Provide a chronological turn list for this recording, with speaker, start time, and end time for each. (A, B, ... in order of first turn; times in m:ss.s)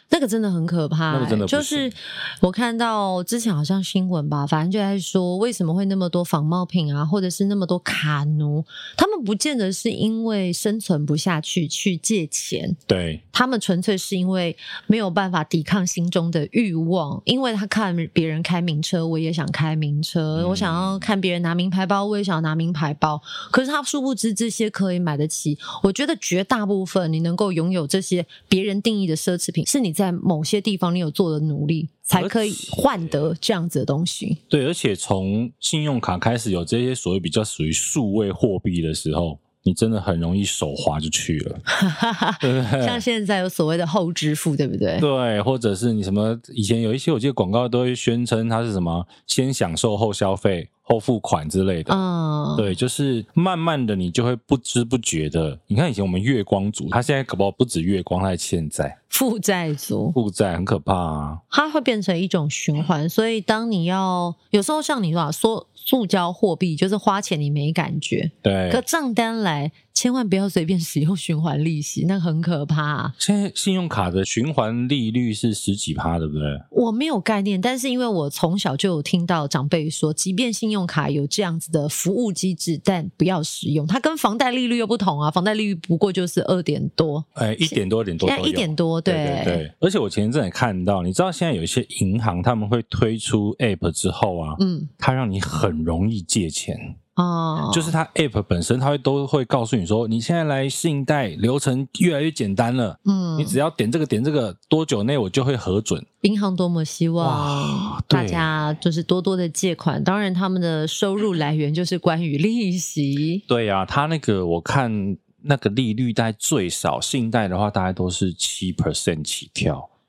0:00.1-0:12.8 A
0:01.1-0:01.9 B
0:12.9-0:13.2 B
0:13.3-0:34.4 A
0:20.4-0:21.1 B
0:32.1-0:33.3 B
0:34.5-0:41.6 B
0:41.7-0:45.0 A
0:42.4-0:43.0 B
0:45.0-0:52.0 B
0:51.9-0:52.7 A
0:52.6-0:59.0 B
0:59.1-1:00.2 A
1:00.1-1:01.4 B
1:01.5-1:13.1 A
1:08.4-1:08.8 B
1:13.2-1:16.6 B
1:16.7-1:29.6 A
1:27.4-1:37.0 B
1:34.6-1:34.9 A
1:37.2-1:37.9 A
1:37.7-1:46.0 B
1:43.0-1:43.6 A
1:46.2-1:53.4 A
1:47.2-1:48.6 B
1:53.5-1:59.9 B